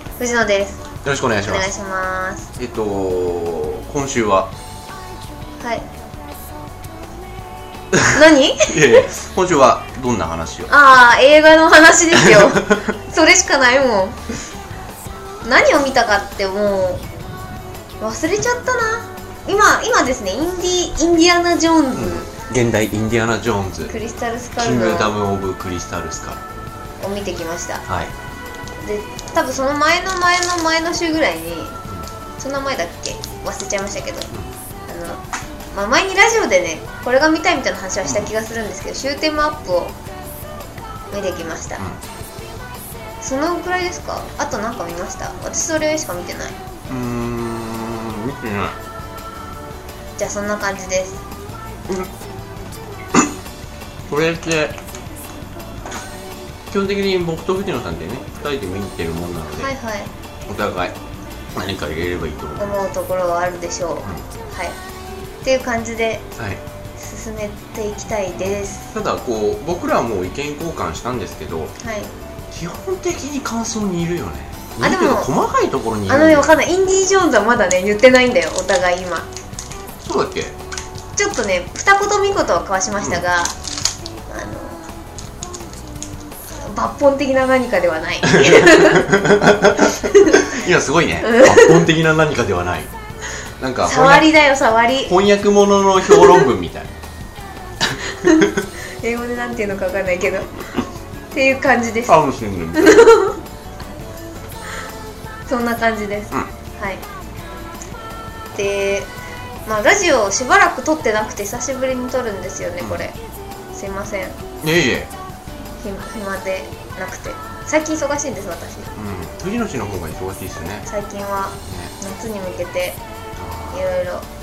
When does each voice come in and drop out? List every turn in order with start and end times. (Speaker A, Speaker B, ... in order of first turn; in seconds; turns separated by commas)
Speaker A: 0.2-0.8, Speaker B: 1.0-1.7, Speaker A: 1.4-2.5, Speaker B: 2.6-4.5, Speaker A: 5.6-5.8, Speaker B: 7.9-10.7, Speaker A: 8.1-9.1, Speaker A: 10.7-14.2, Speaker B: 12.1-12.8, Speaker A: 15.4-17.0, Speaker A: 18.0-22.3, Speaker B: 21.9-23.9, Speaker A: 23.9-25.2, Speaker B: 24.6-26.4, Speaker A: 27.0-27.8, Speaker B: 27.9-28.1, Speaker A: 28.8-31.8, Speaker A: 32.4-34.3, Speaker A: 34.9-40.0, Speaker B: 38.0-38.3, Speaker A: 41.1-41.8, Speaker A: 43.2-46.6, Speaker B: 46.9-48.8, Speaker A: 50.2-51.2, Speaker B: 54.1-54.8, Speaker B: 56.7-59.7, Speaker A: 59.6-60.1, Speaker B: 60.5-61.0, Speaker B: 61.5-62.8, Speaker A: 62.6-64.8, Speaker A: 65.4-66.3, Speaker B: 66.4-66.6, Speaker A: 67.0-68.9, Speaker B: 68.3-71.7, Speaker A: 71.8-72.1, Speaker B: 72.5-76.6, Speaker A: 74.8-75.3, Speaker A: 76.1-79.3, Speaker B: 80.0-80.6, Speaker A: 81.2-83.6, Speaker B: 83.0-83.3, Speaker A: 84.3-84.9, Speaker A: 86.6-89.3, Speaker B: 88.2-92.9, Speaker A: 89.8-90.5, Speaker A: 91.2-91.9, Speaker B: 93.6-94.3, Speaker A: 93.8-95.2, Speaker B: 95.1-96.9, Speaker A: 96.1-96.5, Speaker B: 97.8-98.6, Speaker A: 98.0-100.8, Speaker A: 101.3-103.4, Speaker B: 102.0-103.2, Speaker A: 105.5-107.0, Speaker A: 108.5-109.1, Speaker A: 109.7-113.2, Speaker B: 112.8-113.1, Speaker A: 113.7-114.4, Speaker B: 114.6-115.1, Speaker A: 115.8-119.0, Speaker B: 118.9-120.9, Speaker A: 120.9-123.0, Speaker B: 121.6-121.9, Speaker B: 123.4-123.9, Speaker A: 123.7-124.3